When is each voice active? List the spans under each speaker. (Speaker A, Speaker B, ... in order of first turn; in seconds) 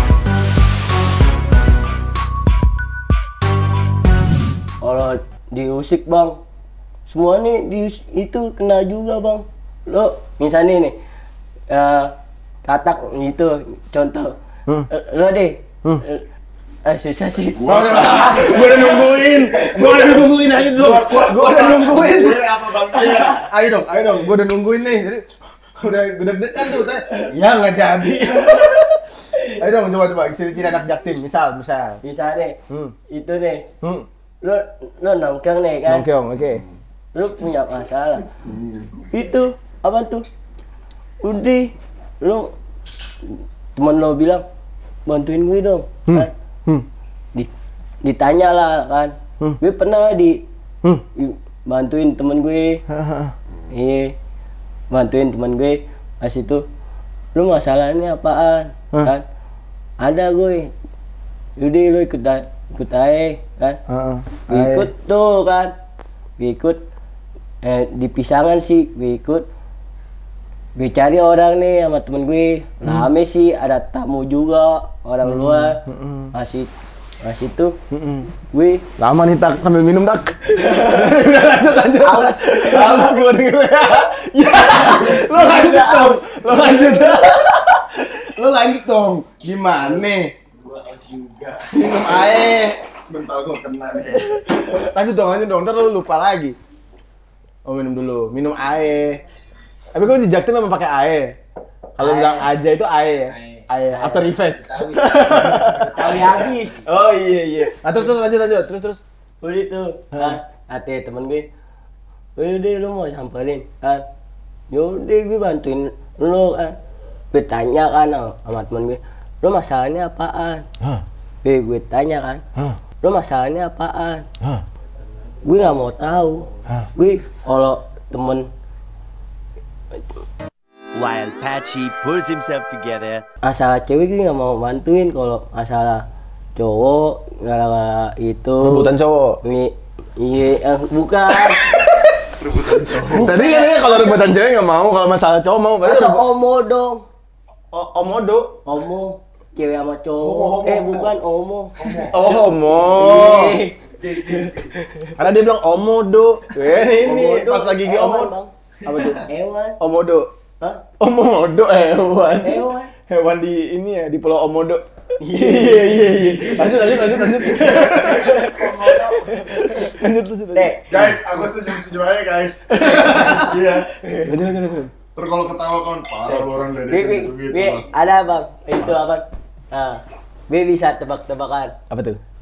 Speaker A: 4.8-6.4, 7.1-10.9, 11.7-12.1, 12.7-14.3, 14.9-16.2, 16.9-17.6, 32.0-33.7, 34.4-36.1, 37.1-38.3, 39.1-40.3, 41.2-42.5, 43.2-44.4, 45.1-46.3, 48.0-50.4, 51.2-52.8, 53.7-54.1, 54.9-56.6, 57.4-59.2, 60.0-60.7, 61.6-63.8, 64.5-65.7, 66.4-66.8, 67.6-69.5, 70.8-75.8, 76.3-76.7, 77.2-77.8, 78.5-78.8, 80.5-81.1, 82.0-83.2, 84.7-87.2, 102.0-102.5, 104.0-104.4, 105.4-106.8, 109.4-111.5, 112.4-114.0, 114.7-116.8, 117.3-120.7, 121.4-122.4, 123.0-124.3, 125.4-128.5, 133.4-136.1, 136.6-141.6, 143.1-144.3, 145.8-147.1, 148.7-152.0, 152.9-153.8, 154.3-155.1, 156.8-158.5, 159.1-159.8, 162.3-162.9, 165.2-167.2, 167.9-169.9, 170.5-170.9, 174.0-174.3, 176.9-181.8
Speaker B: 17.6-23.4, 38.4-39.0, 90.6-94.4, 142.3-143.4, 150.2-151.1, 151.8-153.3, 154.0-154.8, 167.4-169.3, 170.9-173.9, 175.2-177.9
Speaker C: 17.6-22.4, 23.3-32.0, 32.7-33.0, 33.8-34.1, 35.9-36.6, 46.1-46.9, 52.9-53.3, 63.9-64.9, 72.8-73.1, 75.2-76.3, 77.9-78.3, 79.0-90.3, 91.7-92.8, 94.7-96.6, 97.7-99.2, 99.9-101.4, 102.0-106.3, 106.8-109.0, 110.1-110.4, 138.6-139.4, 141.3-142.2, 142.7-146.3, 147.7-148.7, 152.1-153.6, 155.2-158.3, 158.9-159.2, 159.8-160.3, 161.0-171.2, 172.7-173.6, 174.2-174.9, 181.9-182.2
Speaker D: 130.9-133.2